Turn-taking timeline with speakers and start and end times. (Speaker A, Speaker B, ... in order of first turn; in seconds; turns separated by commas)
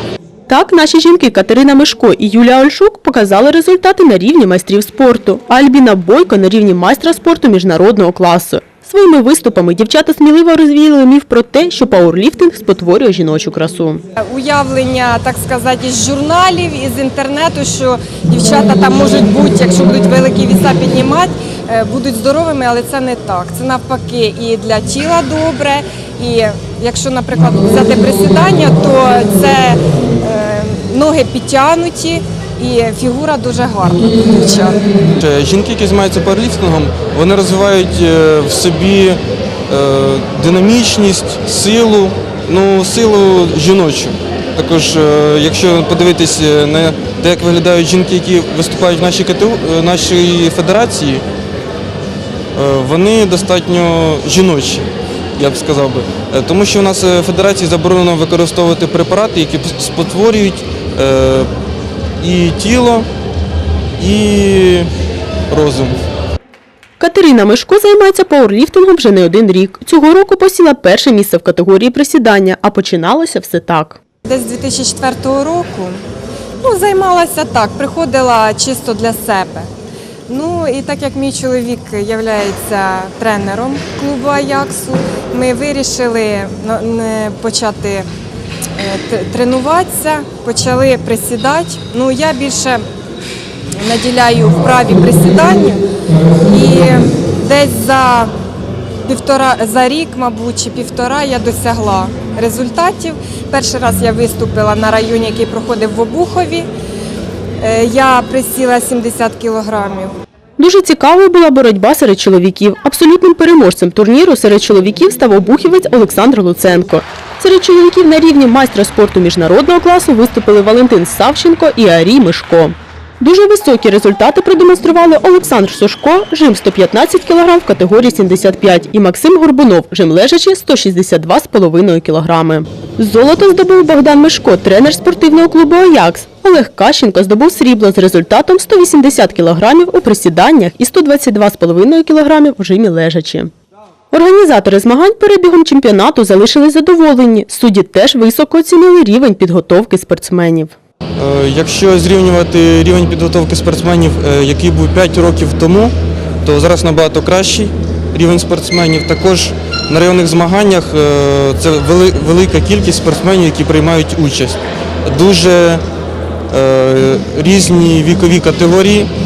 Speaker A: 0.5-14.0, Speaker B: 14.2-34.9, Speaker C: 35.1-51.2, Speaker C: 52.5-61.5, Speaker C: 62.2-63.1, Speaker C: 64.0-64.9, Speaker C: 65.5-66.0, Speaker A: 67.0-74.0, Speaker B: 74.2-76.0, Speaker B: 76.6-79.7, Speaker B: 80.3-88.0, Speaker B: 88.8-92.8, Speaker B: 93.8-95.8, Speaker B: 96.4-98.3, Speaker B: 99.0-106.7, Speaker B: 107.6-110.1, Speaker A: 110.6-143.5, Speaker A: 144.1-150.7, Speaker C: 151.2-165.8, Speaker C: 166.5-169.1